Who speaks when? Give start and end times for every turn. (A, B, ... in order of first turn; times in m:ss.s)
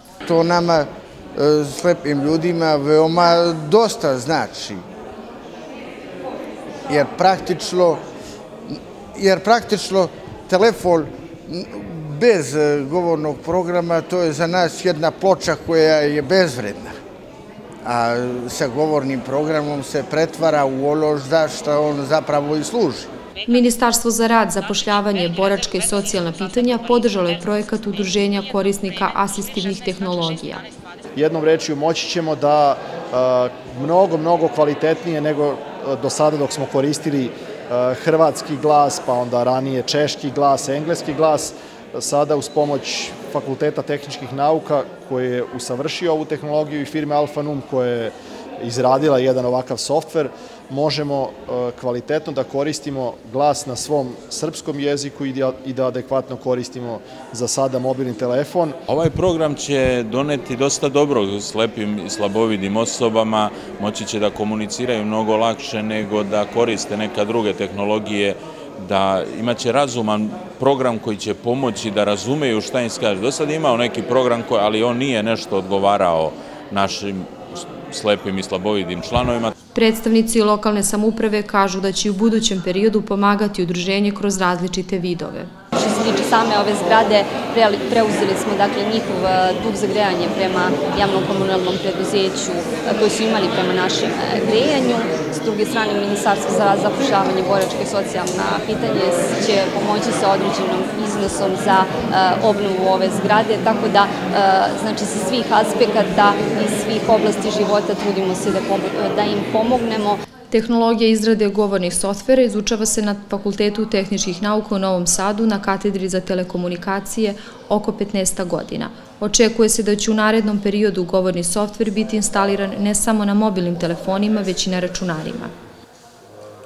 0:00.2-0:04.8 A
0:06.9-0:08.0 A
0:08.7-0:17.0 A
0:17.8-0:23.1 A
0:23.5-0:30.6 B
0:31.2-0:58.8 C
0:58.9-1:19.5 D
1:19.8-1:25.5 B
1:25.7-1:50.2 E
1:50.5-2:05.5 B